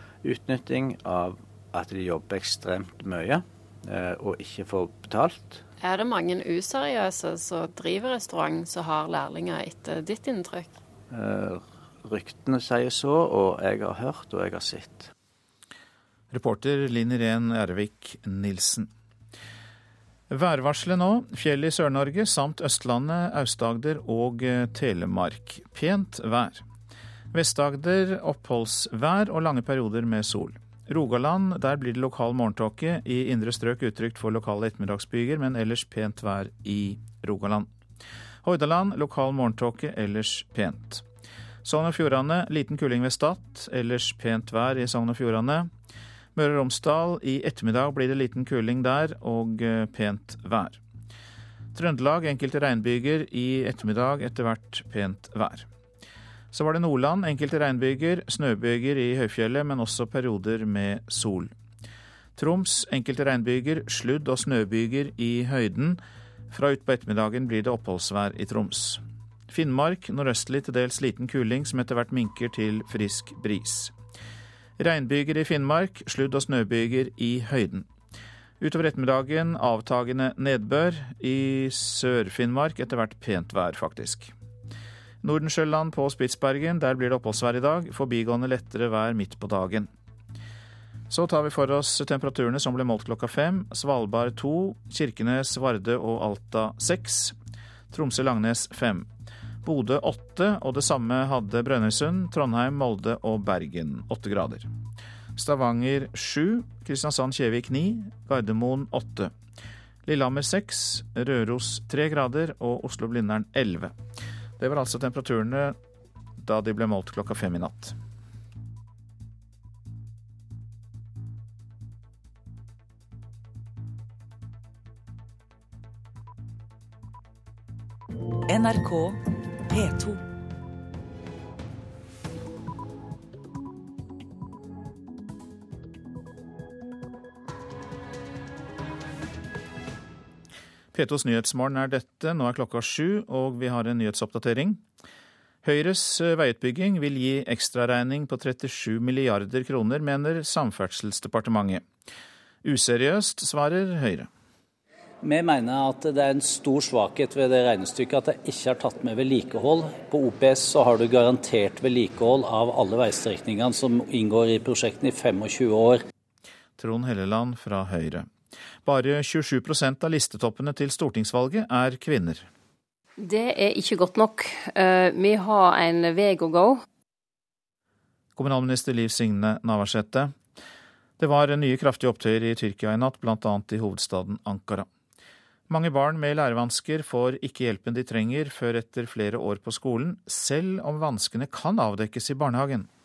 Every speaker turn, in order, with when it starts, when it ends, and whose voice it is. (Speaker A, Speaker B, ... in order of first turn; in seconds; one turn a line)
Speaker A: 0.2-5.6
Speaker B: 5.8-10.7
Speaker A: 11.1-15.1
Speaker C: 16.3-18.9
Speaker C: 20.3-26.6
Speaker C: 27.3-37.7
Speaker C: 38.4-41.0
Speaker C: 41.6-45.7
Speaker C: 46.3-50.8
Speaker C: 51.7-55.7
Speaker C: 56.5-61.5
Speaker C: 62.4-66.0
Speaker C: 66.5-73.9
Speaker C: 74.8-77.9
Speaker C: 78.6-84.3
Speaker C: 85.2-89.9
Speaker C: 91.1-97.3
Speaker C: 97.9-99.1
Speaker C: 99.6-104.7
Speaker C: 105.4-109.3
Speaker C: 110.0-113.9
Speaker C: 114.6-115.8
Speaker C: 116.4-117.9
Speaker A: 128.5-130.2
Speaker C: 140.9-144.8
Speaker C: 145.6-151.8
Speaker C: 152.6-154.3
Speaker D: 155.2-166.0
Speaker C: 166.8-168.3
Speaker C: 168.8-172.5
Speaker E: 173.2-176.8
Speaker C: 178.3-180.3
Speaker C: 181.2-184.9
Speaker C: 185.7-192.9